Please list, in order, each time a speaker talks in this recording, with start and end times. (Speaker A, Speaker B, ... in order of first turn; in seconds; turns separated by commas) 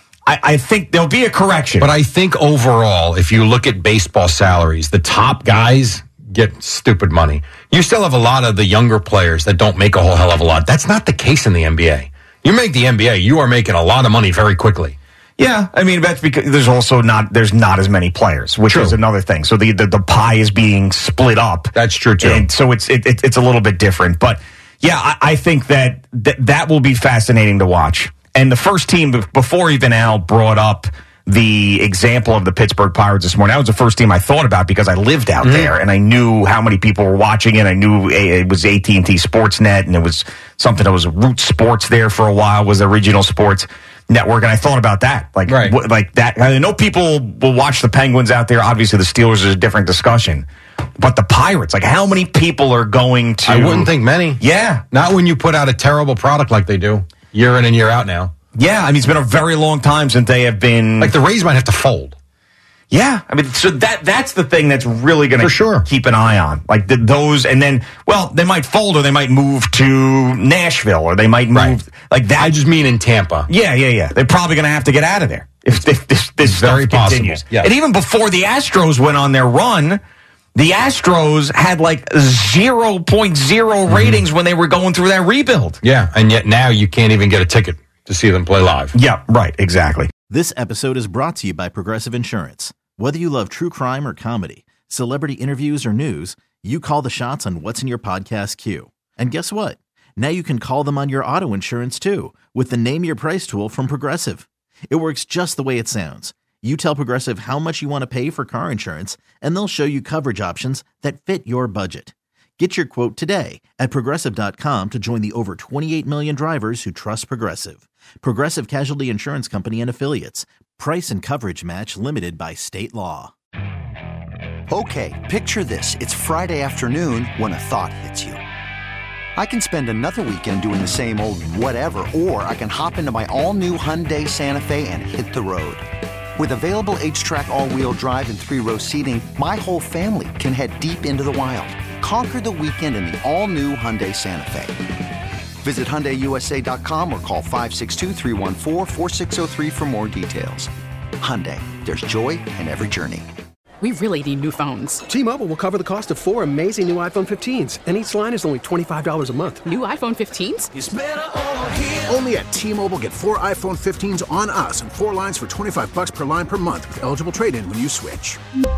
Speaker A: 0.3-1.9, Speaker B: 1.8-14.9, Speaker A: 15.4-50.5, Speaker B: 18.7-19.0, Speaker B: 21.7-22.5, Speaker B: 35.4-35.7, Speaker B: 45.5-45.7, Speaker A: 51.0-54.8, Speaker B: 53.4-58.3, Speaker A: 58.5-61.1, Speaker B: 61.0-62.1, Speaker A: 62.9-72.5, Speaker B: 65.4-65.8, Speaker B: 71.5-71.8, Speaker B: 72.4-73.5, Speaker A: 73.5-80.0, Speaker B: 76.4-77.7, Speaker A: 80.5-85.8, Speaker B: 83.9-84.2, Speaker B: 85.8-88.9, Speaker A: 88.9-90.1, Speaker C: 90.3-123.3, Speaker D: 124.7-128.4, Speaker D: 129.3-144.8, Speaker D: 145.6-153.3, Speaker E: 153.8-155.0, Speaker F: 155.1-159.7, Speaker E: 159.6-160.7, Speaker F: 160.8-168.4